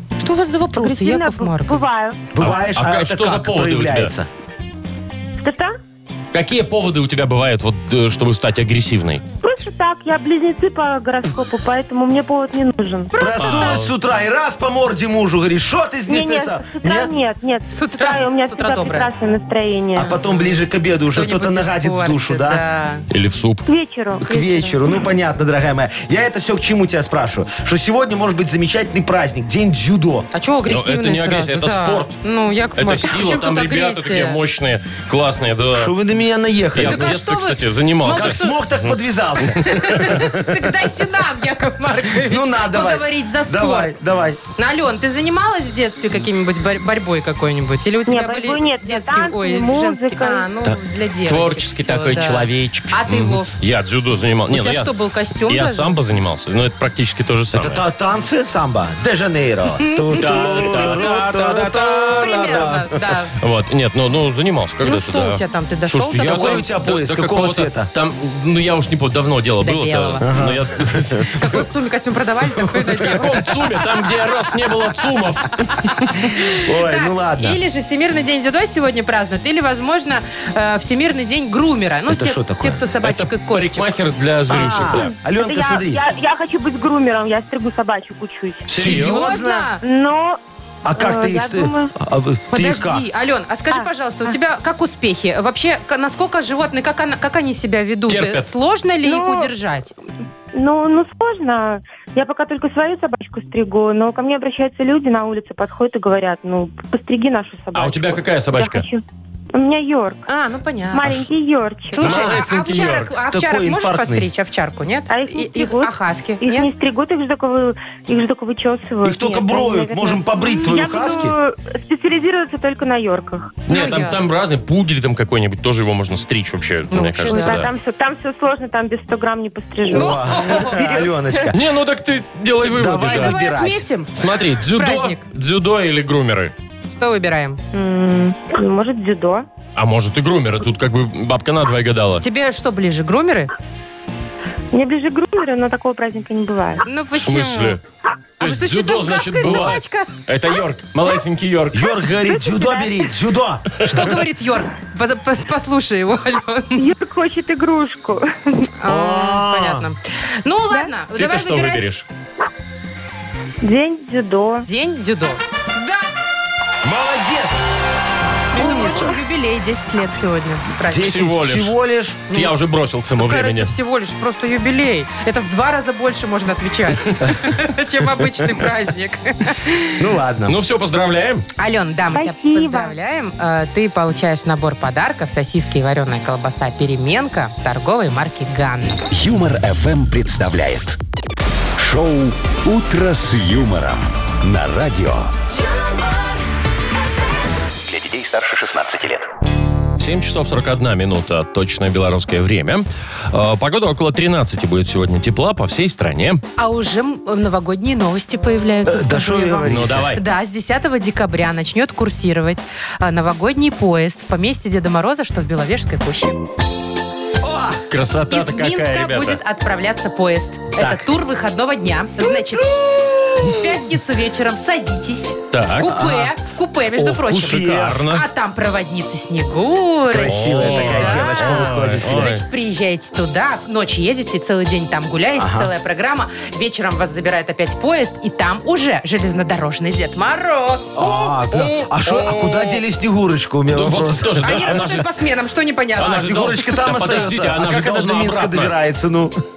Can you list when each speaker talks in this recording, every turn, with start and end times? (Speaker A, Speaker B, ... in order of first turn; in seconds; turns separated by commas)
Speaker A: 0.2-1.8, Speaker B: 0.8-2.2, Speaker C: 2.3-4.3, Speaker D: 2.4-4.1, Speaker B: 5.4-5.8, Speaker D: 6.3-9.2, Speaker B: 9.4-13.5, Speaker A: 13.1-13.6, Speaker C: 13.2-17.1, Speaker D: 13.4-13.9, Speaker B: 16.1-20.2, Speaker A: 17.7-19.1, Speaker C: 19.9-22.6, Speaker A: 20.0-20.6, Speaker A: 21.1-23.0, Speaker D: 23.1-23.6, Speaker B: 23.6-24.8, Speaker C: 24.2-30.3, Speaker A: 30.3-34.4, Speaker D: 30.7-32.1, Speaker D: 32.8-35.9, Speaker C: 35.7-37.2, Speaker D: 36.7-39.0, Speaker A: 36.8-38.6, Speaker C: 38.0-40.7, Speaker A: 39.5-44.0, Speaker C: 42.2-44.4, Speaker A: 44.6-53.5, Speaker B: 48.0-50.5, Speaker D: 50.6-54.9, Speaker A: 54.5-56.0, Speaker D: 55.5-57.8, Speaker C: 57.5-62.9, Speaker A: 59.8-61.1, Speaker D: 60.1-71.3, Speaker A: 61.8-63.3, Speaker A: 64.8-66.7, Speaker C: 66.1-67.9, Speaker A: 69.6-70.3, Speaker C: 70.2-71.3, Speaker A: 71.3-73.4, Speaker C: 72.5-73.3, Speaker D: 73.0-76.3, Speaker A: 76.2-83.9, Speaker C: 76.5-77.6, Speaker C: 82.1-82.8, Speaker D: 83.0-85.1, Speaker C: 84.5-86.0, Speaker B: 84.6-88.7, Speaker D: 88.7-89.2, Speaker C: 88.8-89.7, Speaker A: 88.8-89.8, Speaker B: 89.8-90.4, Speaker C: 90.8-93.0, Speaker B: 90.9-91.9, Speaker A: 92.5-100.0, Speaker B: 93.7-94.3, Speaker D: 98.1-98.5, Speaker B: 99.0-99.5, Speaker B: 100.5-110.2, Speaker D: 107.7-108.8, Speaker A: 110.3-111.2, Speaker B: 110.9-112.0, Speaker A: 111.9-116.7, Speaker D: 112.0-113.1, Speaker C: 112.0-112.5, Speaker C: 113.2-114.3, Speaker B: 115.1-123.5, Speaker C: 119.0-121.3, Speaker D: 123.7-127.7, Speaker A: 123.7-124.2, Speaker A: 126.9-127.6, Speaker B: 127.2-130.2, Speaker C: 129.9-131.7, Speaker A: 129.9-131.0, Speaker D: 131.5-133.4, Speaker C: 132.6-133.8, Speaker A: 133.0-135.2, Speaker D: 134.1-136.5, Speaker A: 137.0-137.6, Speaker B: 137.7-139.4, Speaker D: 139.8-142.2, Speaker A: 142.2-143.5, Speaker B: 144.7-146.8, Speaker A: 146.8-147.8, Speaker D: 147.2-147.8, Speaker A: 148.4-150.1, Speaker D: 148.4-151.9, Speaker C: 151.7-154.1, Speaker B: 152.3-152.9, Speaker A: 153.8-156.8, Speaker B: 156.8-158.7, Speaker A: 158.8-161.9, Speaker C: 158.9-159.9, Speaker D: 161.1-162.0, Speaker B: 163.6-164.7, Speaker A: 164.7-166.1, Speaker C: 166.8-167.6, Speaker A: 168.5-171.2, Speaker C: 168.5-169.2, Speaker C: 170.9-172.3, Speaker D: 171.0-171.8, Speaker D: 172.3-173.7, Speaker A: 173.2-180.0, Speaker C: 180.0-180.6, Speaker D: 180.5-181.4, Speaker A: 181.6-189.0, Speaker B: 182.1-182.9, Speaker E: 189.1-191.0, Speaker E: 191.8-195.3, Speaker E: 197.8-199.3, Speaker D: 200.0-206.4, Speaker A: 206.6-216.4, Speaker C: 208.8-210.1, Speaker D: 209.6-210.2, Speaker C: 217.4-217.8, Speaker D: 217.9-219.4, Speaker A: 218.3-222.8, Speaker C: 220.8-221.1, Speaker C: 222.4-223.6, Speaker A: 223.4-242.1, Speaker D: 225.5-226.0, Speaker C: 225.8-226.3, Speaker C: 226.9-228.0, Speaker D: 227.4-228.2, Speaker C: 230.1-232.4, Speaker D: 230.2-232.4, Speaker C: 235.4-235.7, Speaker C: 240.9-244.9, Speaker D: 243.7-245.1, Speaker A: 244.4-246.4, Speaker D: 246.0-248.8, Speaker C: 246.0-249.4